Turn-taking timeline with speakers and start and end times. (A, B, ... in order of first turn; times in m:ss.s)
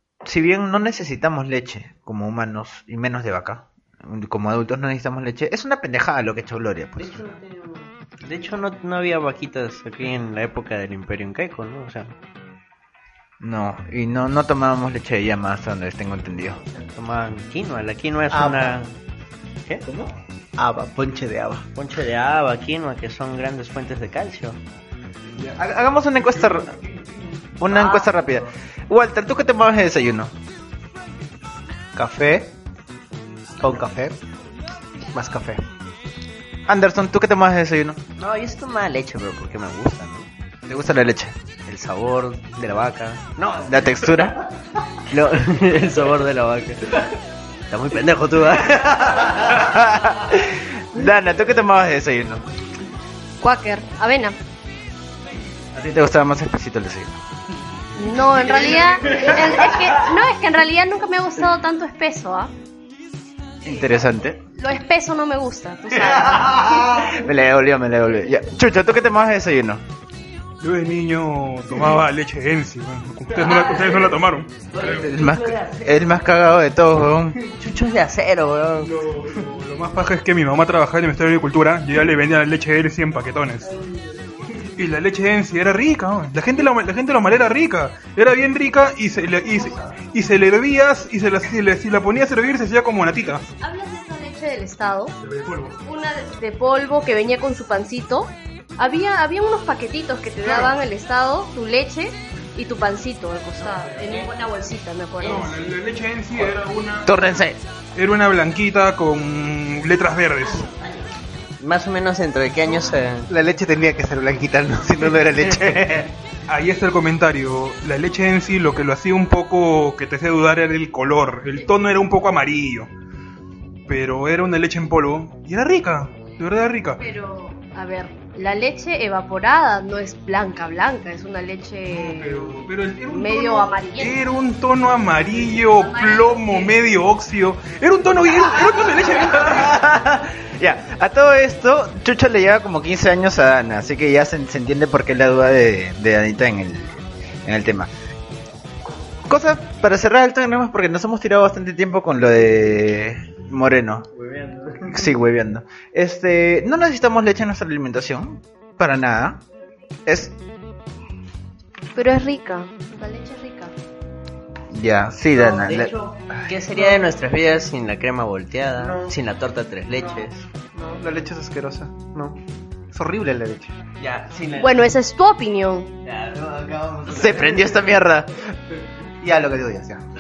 0:00.2-0:07.2 A
0:07.0-0:12.1 B
0:13.4-0:16.6 A
0:16.6-0:18.9 B
0:18.3-0:18.8 C
0:19.8-0:20.1 A
0:20.6-0:21.6 C
0:21.8-0:24.6 B
0:25.3-0:26.8 A
0:27.6-0:30.3 A
0:27.7-0:28.3 B
0:31.9-0:32.5 C
0:33.6-0:34.2 C
0:35.1-0:35.6 C
0:36.7-0:38.0 A
0:38.2-0:40.3 B
0:40.7-0:41.4 A
0:41.7-0:44.3 B
0:43.6-0:44.4 A
0:45.1-0:47.0 B
0:47.7-0:49.6 B
0:49.6-0:52.4 A
0:53.4-0:54.4 D
0:55.7-0:57.2 A
0:58.0-1:02.5 D
1:03.6-1:04.4 A
1:04.6-1:06.7 D
1:06.4-1:09.8 A
1:06.4-1:06.8 B
1:10.6-1:15.0 E
1:13.4-1:14.1 B
1:14.7-1:15.8 B
1:14.8-1:17.4 A
1:17.5-1:18.9 B
1:18.8-1:23.7 E
1:24.6-1:33.4 E
1:33.6-1:35.2 D
1:35.2-1:35.8 E
1:35.8-1:45.7 D
1:45.2-1:47.1 E
1:47.0-1:47.6 A
1:47.9-1:50.7 E
1:51.6-1:53.3 B
1:53.3-1:56.1 C
1:56.5-2:02.9 E
2:03.9-2:07.0 E
2:07.0-2:14.2 D
2:11.9-2:19.7 E
2:15.5-2:16.8 D
2:19.2-2:27.9 A
2:29.3-2:34.1 A
2:34.2-2:34.8 B
2:34.8-2:39.4 A
2:40.0-2:40.3 A
2:41.9-2:43.8 D
2:44.7-2:45.9 A
2:45.3-2:50.4 B
2:48.8-2:49.1 C
2:50.7-2:52.4 C
2:52.9-2:53.8 C
2:54.0-2:54.8 B
2:54.6-2:56.0 D
2:56.0-2:57.8 B
2:57.1-2:58.4 A
2:59.2-3:00.0 C